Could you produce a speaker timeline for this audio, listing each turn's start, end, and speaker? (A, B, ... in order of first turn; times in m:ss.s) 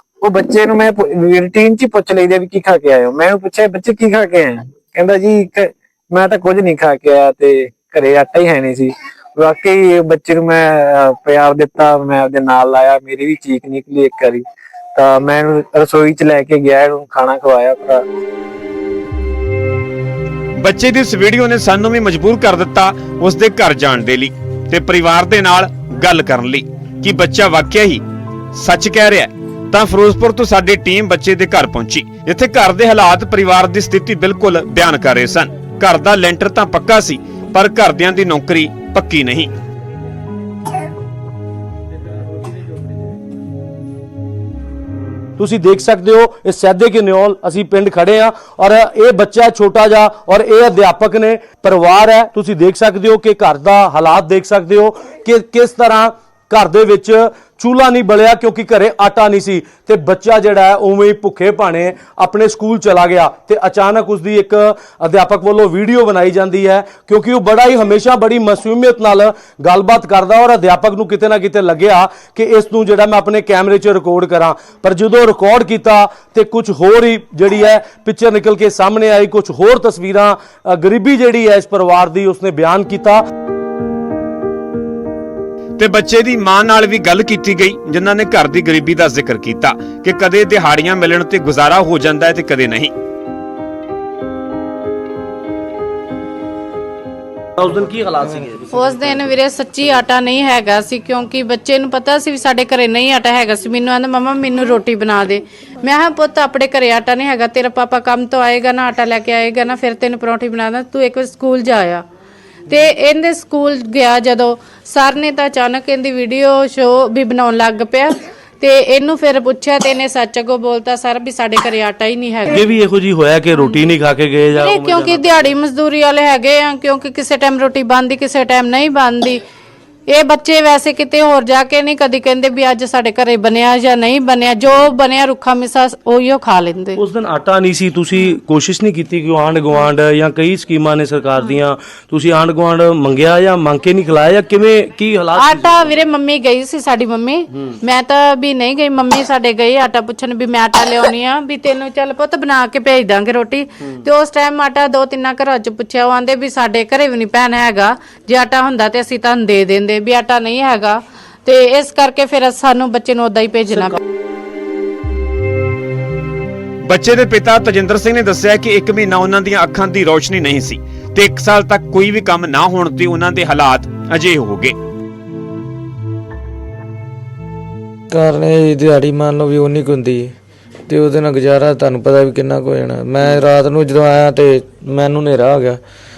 0:00.2-0:14.4 A
0:15.0-0:18.0 A
0:20.6-0:39.5 B
0:45.4-1:23.2 C
1:25.8-1:32.9 B
1:37.6-1:39.3 C
1:38.7-1:52.0 D
1:52.7-2:02.7 D
2:02.5-2:05.6 C
2:03.6-2:03.9 D
2:04.6-2:09.4 D
2:10.1-2:17.0 D
2:17.0-2:26.0 C
2:25.4-2:44.0 D
2:46.8-2:54.8 B
2:58.1-3:00.4 E
3:00.9-3:05.8 E